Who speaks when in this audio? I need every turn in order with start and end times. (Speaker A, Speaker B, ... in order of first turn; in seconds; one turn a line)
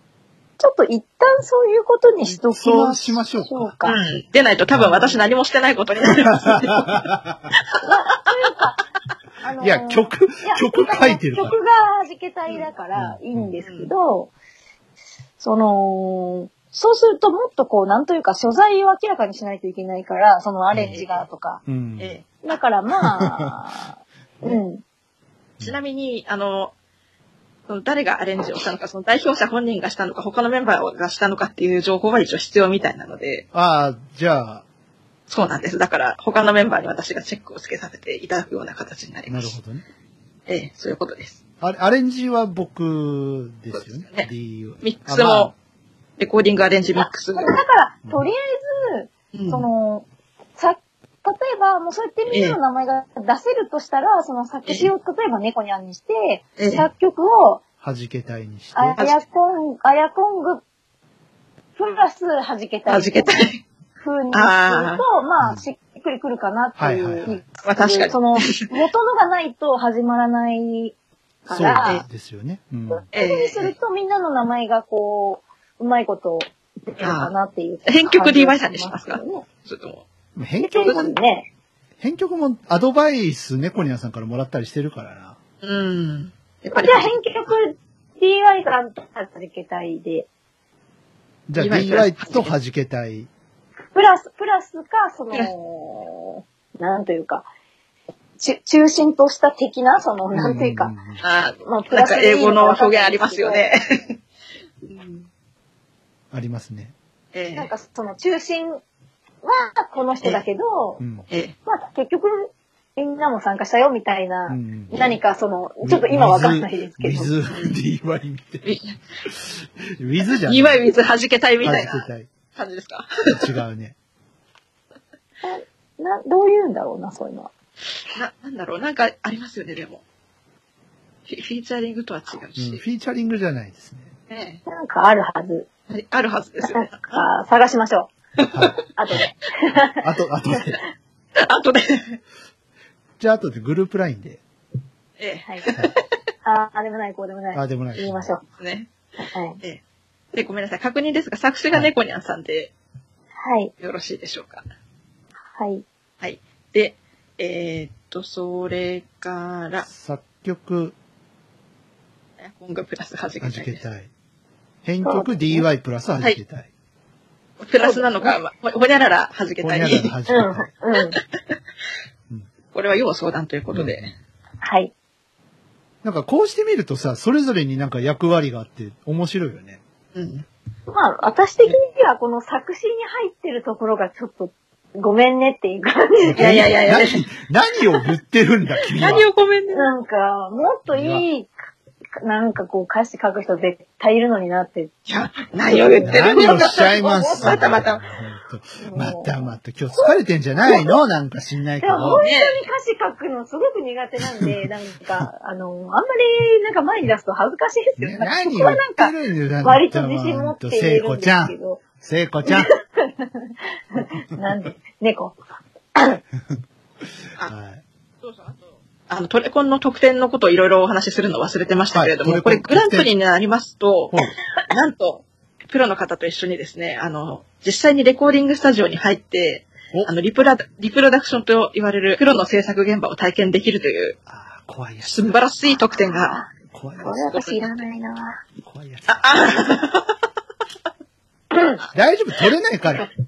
Speaker A: 0.6-4.0
Speaker B: 2.3-3.8
Speaker C: 3.8-7.0
Speaker B: 4.7-5.1
Speaker B: 6.3-7.4
Speaker A: 7.8-8.8
Speaker A: 9.4-14.3
Speaker B: 9.6-11.6
Speaker B: 12.9-13.6
Speaker C: 13.6-13.9
Speaker A: 15.4-21.6
Speaker B: 20.7-21.0
Speaker C: 20.9-21.3
Speaker B: 21.7-22.2
Speaker C: 22.0-22.6
Speaker A: 22.4-24.8
Speaker B: 23.2-23.5
Speaker C: 25.6-26.7
Speaker C: 27.7-33.5
Speaker B: 33.5-34.6
Speaker C: 35.3-39.5
Speaker B: 39.3-39.8
Speaker C: 40.5-41.4
Speaker B: 41.6-45.5
Speaker C: 43.8-44.3
Speaker C: 44.8-45.5
Speaker C: 46.2-47.6
Speaker A: 47.0-50.0
Speaker C: 49.3-49.7
Speaker A: 50.6-57.6
Speaker C: 52.3-52.6
Speaker C: 56.6-56.9
Speaker B: 57.8-59.0
Speaker A: 58.7-60.6
Speaker A: 61.8-63.4
Speaker C: 62.9-63.6
Speaker A: 64.0-71.0
Speaker C: 64.3-65.0
Speaker B: 66.8-67.4
Speaker C: 67.6-68.7
Speaker A: 71.5-72.0
Speaker B: 71.5-73.0
Speaker A: 72.9-79.5
Speaker C: 73.1-73.7
Speaker C: 77.0-77.3
Speaker C: 77.9-80.0
Speaker B: 80.3-81.1
Speaker A: 80.6-81.5
Speaker B: 82.0-85.4
Speaker C: 85.6-87.2
Speaker A: 86.7-90.3
Speaker B: 91.5-93.3
Speaker C: 91.6-92.5
Speaker A: 94.0-97.5
Speaker A: 98.4-101.0
Speaker B: 100.3-101.2
Speaker C: 101.2-104.2
Speaker A: 101.6-103.6
Speaker C: 104.9-105.3
Speaker B: 106.3-106.9
Speaker C: 107.3-107.7
Speaker A: 107.5-108.8
Speaker A: 109.4-111.0
Speaker B: 111.0-111.3
Speaker A: 111.7-117.3
Speaker B: 114.5-115.1
Speaker B: 115.8-118.6
Speaker C: 117.5-117.8
Speaker C: 118.6-119.0
Speaker B: 119.3-120.8
Speaker C: 120.2-123.5
Speaker B: 121.6-122.3
Speaker B: 123.3-124.0
Speaker A: 125.4-127.5
Speaker C: 128.1-130.0
Speaker C: 131.3-132.8
Speaker B: 132.6-134.1
Speaker C: 134.3-134.6
Speaker A: 134.7-135.7
Speaker C: 135.9-137.2
Speaker A: 136.6-138.1
Speaker C: 138.4-138.7
Speaker B: 138.5-138.8
Speaker A: 138.9-140.0
Speaker B: 140.0-140.8
Speaker C: 141.4-142.2
Speaker B: 143.2-144.4
Speaker C: 145.2-146.0
Speaker A: 146.4-148.4
Speaker B: 147.5-148.3
Speaker C: 148.6-148.9
Speaker A: 149.3-149.6
Speaker C: 150.3-152.7
Speaker A: 153.4-153.7
Speaker C: 153.8-154.6
Speaker A: 155.6-155.8
Speaker C: 156.2-159.9
Speaker B: 159.9-160.9
Speaker C: 162.4-163.8
Speaker B: 163.4-164.1
Speaker B: 164.8-166.7
Speaker A: 165.0-165.7
Speaker C: 167.6-170.1
Speaker A: 167.8-168.4
Speaker B: 169.6-170.7
Speaker A: 170.3-171.2
Speaker C: 170.9-171.6
Speaker C: 172.7-174.1
Speaker B: 173.7-174.1
Speaker A: 174.6-174.9
Speaker B: 176.0-179.8
Speaker C: 180.1-180.5
Speaker A: 180.9-186.6
Speaker B: 186.3-189.3
Speaker C: 186.4-187.2
Speaker C: 188.9-189.9
Speaker A: 189.7-191.5
Speaker B: 190.9-191.2
Speaker A: 192.2-194.9
Speaker C: 195.1-198.0
Speaker A: 195.7-197.8
Speaker B: 196.1-202.2
Speaker A: 198.8-201.0
Speaker A: 201.8-211.8
Speaker C: 202.1-202.6
Speaker B: 208.0-212.7
Speaker A: 212.4-215.4
Speaker A: 215.9-216.2
Speaker B: 217.4-217.8
Speaker C: 218.2-234.2
Speaker B: 221.9-223.1
Speaker B: 234.3-235.3
Speaker C: 235.0-236.4
Speaker A: 236.1-236.5
Speaker B: 236.7-237.2
Speaker A: 237.0-238.4
Speaker C: 237.1-237.8
Speaker B: 238.6-239.2
Speaker C: 239.1-240.1
Speaker A: 241.5-241.8
Speaker B: 241.9-243.1